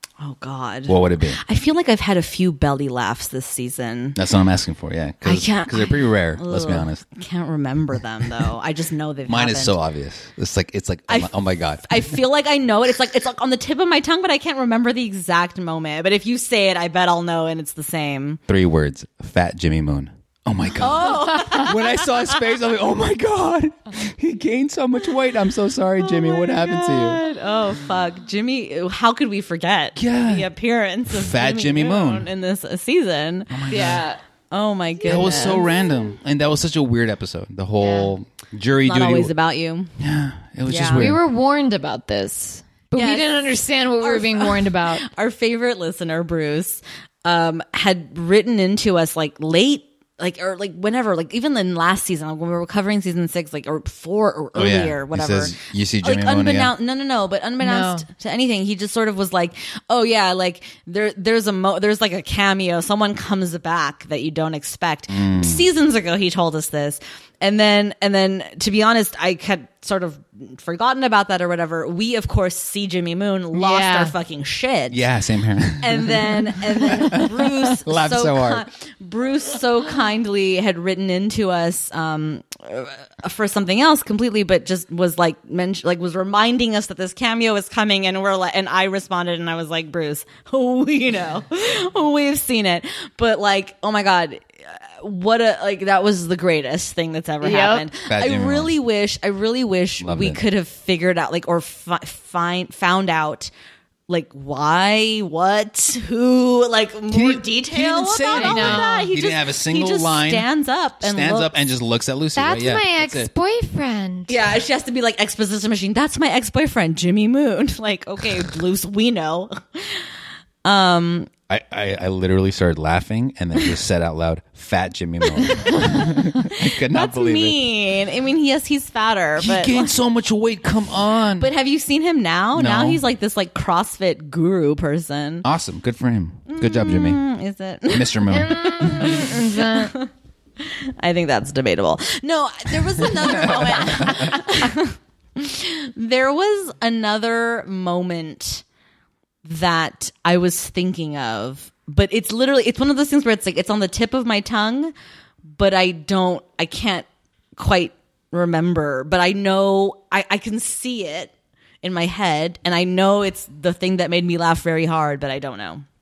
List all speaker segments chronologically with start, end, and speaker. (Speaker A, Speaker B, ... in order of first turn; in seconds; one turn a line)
Speaker A: 0.2-4.2
Speaker B: 0.9-1.4
Speaker B: 4.2-7.0
Speaker A: 5.2-9.8
Speaker B: 9.3-12.1
Speaker A: 11.1-18.4
Speaker B: 18.5-27.2
Speaker A: 20.8-22.3
Speaker A: 26.0-35.7
Speaker B: 30.0-30.5
Speaker B: 31.1-32.3
Speaker B: 33.5-34.0
Speaker C: 33.7-34.2
Speaker B: 35.1-39.3
Speaker C: 35.1-35.4
Speaker C: 37.8-38.1
Speaker A: 38.8-39.9
Speaker B: 40.0-41.2
Speaker A: 40.6-41.1
Speaker C: 40.9-45.0
Speaker A: 42.9-43.5
Speaker A: 44.0-75.0
Speaker B: 54.5-56.7
Speaker C: 57.6-58.1
Speaker B: 65.1-65.7
Speaker C: 73.5-74.1
Speaker B: 74.9-78.6
Speaker A: 75.8-103.5
Speaker C: 97.4-97.9
Speaker B: 98.1-98.7
Speaker B: 100.0-100.4
Speaker A: 104.1-111.5
Speaker B: 107.1-110.5
Speaker C: 108.3-109.1
Speaker B: 111.0-113.3
Speaker C: 112.3-114.3
Speaker A: 114.3-120.0
Speaker A: 120.6-121.3
Speaker B: 121.5-127.6
Speaker A: 125.4-129.9
Speaker B: 129.4-131.5
Speaker A: 131.4-135.4
Speaker B: 132.5-133.0
Speaker B: 135.4-137.2
Speaker A: 136.5-148.6
Speaker B: 137.9-139.2
Speaker C: 138.3-139.9
Speaker B: 143.0-144.5
Speaker A: 149.4-154.9
Speaker A: 155.5-165.8